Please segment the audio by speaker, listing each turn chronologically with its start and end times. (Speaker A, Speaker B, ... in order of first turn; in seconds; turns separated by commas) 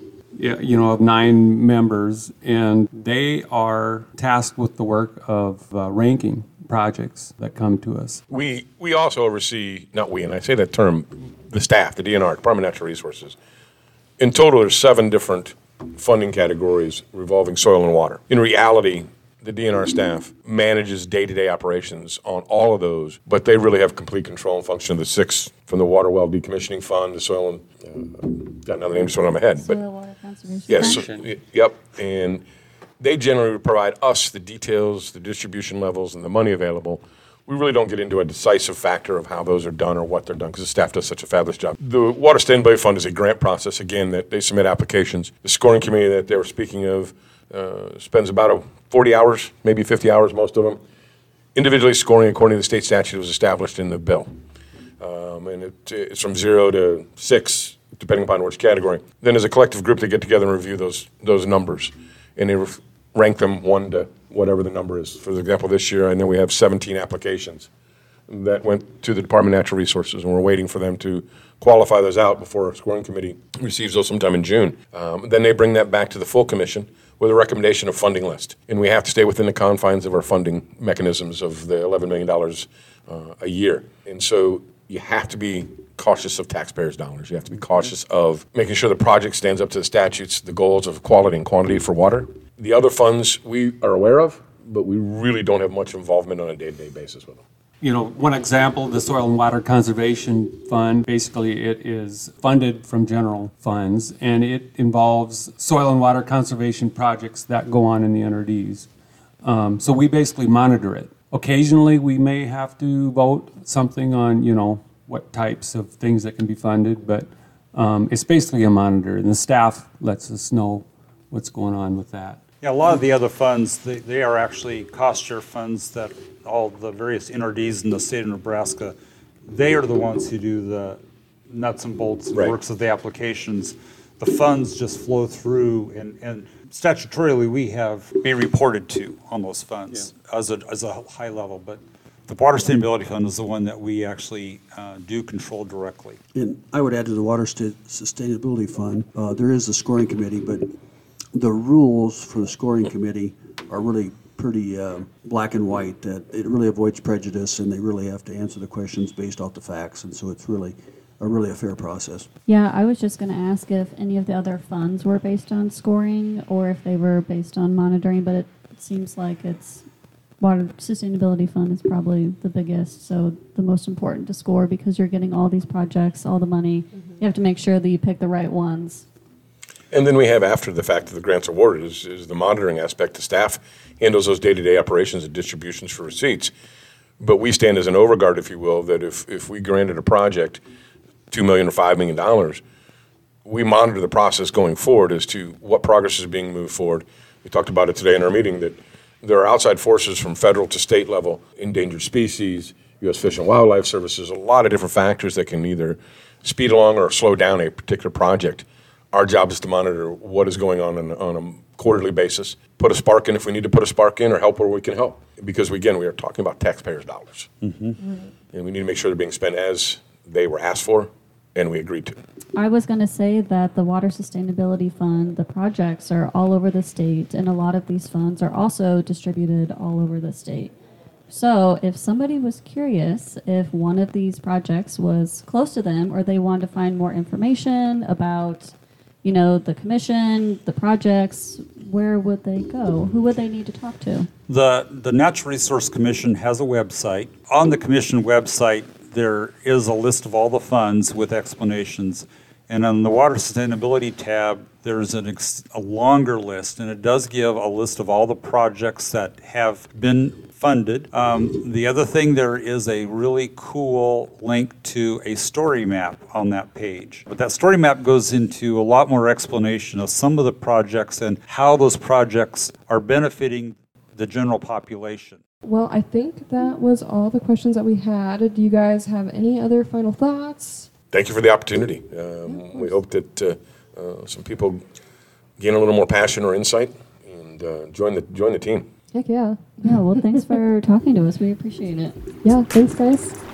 Speaker A: 0.4-8.2, Speaker B: 8.3-13.3, Speaker B: 14.2-29.8, Speaker C: 29.6-30.9, Speaker B: 30.7-32.4, Speaker A: 30.8-31.2, Speaker B: 33.0-50.8, Speaker B: 51.5-54.3, Speaker B: 55.0-67.7, Speaker B: 68.3-97.4, Speaker A: 97.8-108.9, Speaker A: 109.4-122.4, Speaker D: 122.6-128.9, Speaker D: 129.4-146.2, Speaker E: 146.3-150.7, Speaker E: 151.3-162.3, Speaker C: 162.4-169.8, Speaker C: 170.4-179.0, Speaker B: 179.9-186.5, Speaker B: 187.2-190.6, Speaker B: 191.3-192.6, Speaker B: 193.4-217.5, Speaker D: 217.6-217.9, Speaker B: 218.5-222.2, Speaker C: 222.6-230.7, Speaker C: 231.3-238.7, Speaker C: 239.2-244.3, Speaker D: 244.5-275.4, Speaker F: 275.6-280.9, Speaker B: 281.1-284.8, Speaker F: 282.5-282.9, Speaker B: 285.6-288.9, Speaker F: 289.1-290.5, Speaker C: 289.8-292.2, Speaker F: 292.4-293.4